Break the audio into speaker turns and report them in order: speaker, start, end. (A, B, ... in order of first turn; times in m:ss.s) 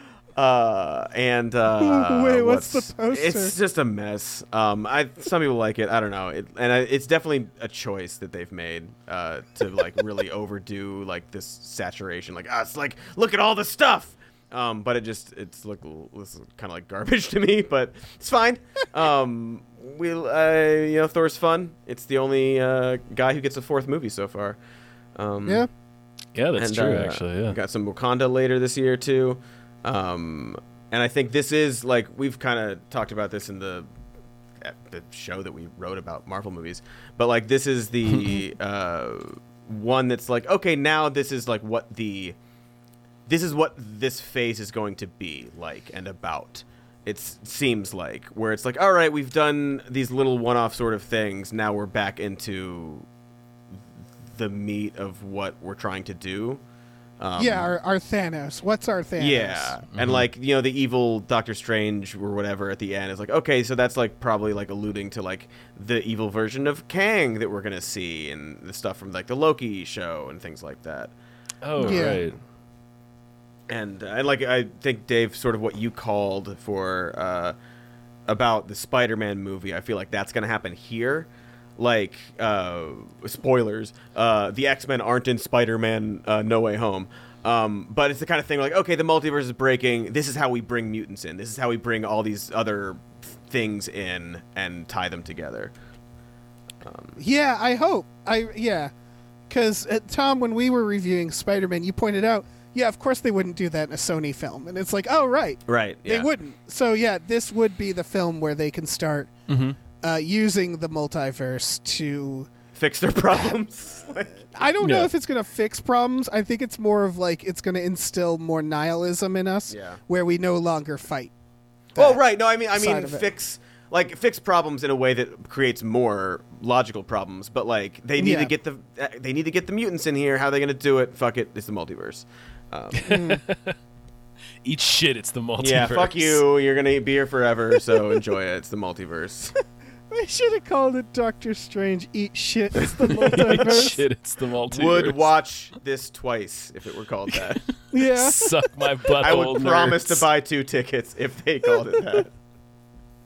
0:00.3-0:24.6 A
0:01.8-0:03.5 B
0:25.2-0:25.7 A
0:26.3-0:27.6 C
0:26.6-0:33.9 A
0:34.6-0:42.4 A
0:38.1-0:38.4 C
0:43.3-0:53.0 A
0:54.2-0:56.6 A
0:57.2-0:57.7 A
0:57.4-0:59.8 B
0:59.2-1:11.1 A
0:59.9-1:00.2 C
1:11.6-1:12.4 C
1:11.8-1:12.2 B
1:11.8-1:12.1 A
1:13.7-1:17.5 A
1:18.3-1:35.7 A
1:36.8-1:37.2 A
1:37.2-1:38.9 B
1:39.5-1:49.3 B
1:45.7-1:46.3 A
1:49.5-1:49.8 C
1:50.0-1:52.5 B
1:52.7-1:54.5 A
1:54.5-2:01.3 B
1:54.8-1:55.1 C
1:59.7-2:00.0 A
2:01.9-2:03.3 B
2:02.0-2:13.2 A
2:08.2-2:08.5 B
2:13.0-2:13.8 C
2:13.0-2:13.4 B
2:14.6-2:16.4 C
2:15.6-2:19.6 A
2:20.1-2:24.0 B
2:23.0-2:25.2 C
2:23.3-2:23.8 A
2:24.7-2:27.6 A
2:27.9-2:28.5 B
2:27.9-2:30.2 C
2:29.2-2:32.3 A